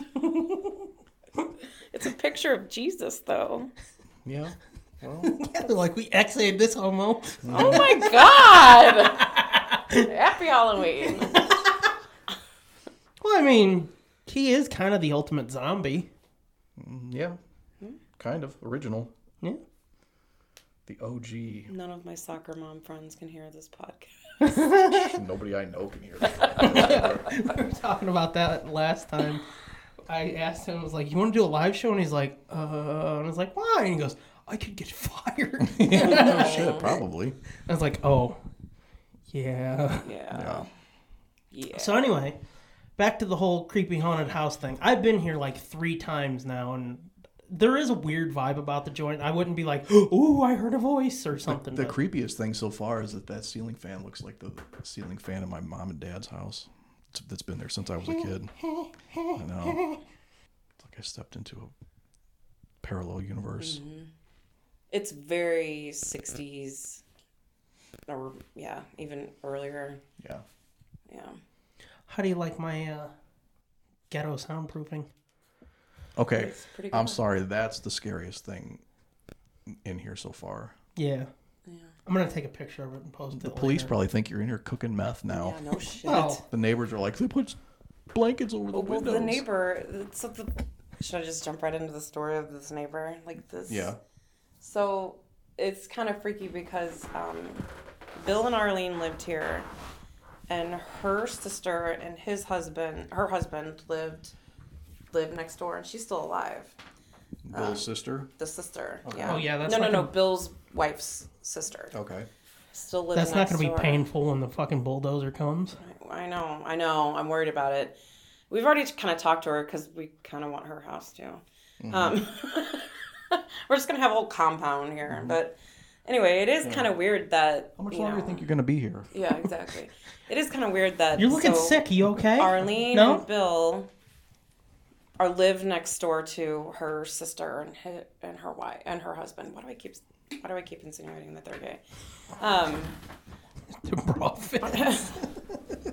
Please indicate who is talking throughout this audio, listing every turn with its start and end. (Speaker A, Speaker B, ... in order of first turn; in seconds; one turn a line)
Speaker A: 0.1-0.8
Speaker B: 1.9-3.7
Speaker C: 4.2-5.4
Speaker A: 5.2-10.1
Speaker C: 7.4-7.9
Speaker B: 7.5-9.3
Speaker B: 10.0-11.5
Speaker A: 11.2-11.6
Speaker A: 13.2-16.1
Speaker C: 16.8-17.4
Speaker C: 18.2-19.1
Speaker C: 20.9-21.7
Speaker B: 21.7-24.7
Speaker A: 24.4-25.2
Speaker C: 25.0-27.2
Speaker B: 26.3-27.1
Speaker A: 26.6-29.5
Speaker A: 30.1-36.8
Speaker C: 35.6-37.4
Speaker B: 35.9-37.0
Speaker A: 37.7-38.4
Speaker A: 39.3-40.1
Speaker B: 40.0-40.7
Speaker C: 40.3-40.7
Speaker B: 41.5-42.0
Speaker A: 41.7-42.4
Speaker A: 43.0-52.0
Speaker C: 51.5-58.5
Speaker A: 58.6-60.0
Speaker C: 59.3-59.9
Speaker C: 60.8-61.7
Speaker C: 62.8-63.8
Speaker B: 63.6-64.1
Speaker B: 64.9-67.0
Speaker B: 68.1-70.0
Speaker B: 71.1-71.4
Speaker A: 72.1-73.1
Speaker A: 74.1-75.1
Speaker C: 76.2-78.8
Speaker B: 76.3-77.2
Speaker C: 79.7-80.8
Speaker A: 81.0-81.3
Speaker B: 81.7-81.9
Speaker A: 82.1-83.9
Speaker C: 83.3-87.6
Speaker B: 85.3-86.4
Speaker A: 86.0-86.4
Speaker C: 88.1-89.4
Speaker B: 88.7-93.9
Speaker C: 93.7-94.0
Speaker B: 94.6-99.7
Speaker B: 100.5-104.3
Speaker B: 105.1-106.8
Speaker C: 107.5-108.3
Speaker B: 107.5-107.8
Speaker B: 108.4-111.9
Speaker C: 109.0-109.4
Speaker A: 109.2-110.1
Speaker C: 111.9-112.3
Speaker B: 112.7-114.0
Speaker A: 113.1-115.8
Speaker B: 115.8-118.0
Speaker B: 118.5-125.5
Speaker C: 121.8-122.2
Speaker B: 126.1-128.5
Speaker C: 126.6-126.9
Speaker C: 127.8-129.5
Speaker B: 129.1-133.9
Speaker A: 131.2-133.2
Speaker B: 135.2-141.8
Speaker B: 142.4-143.0
Speaker A: 143.8-145.3
Speaker B: 144.6-145.2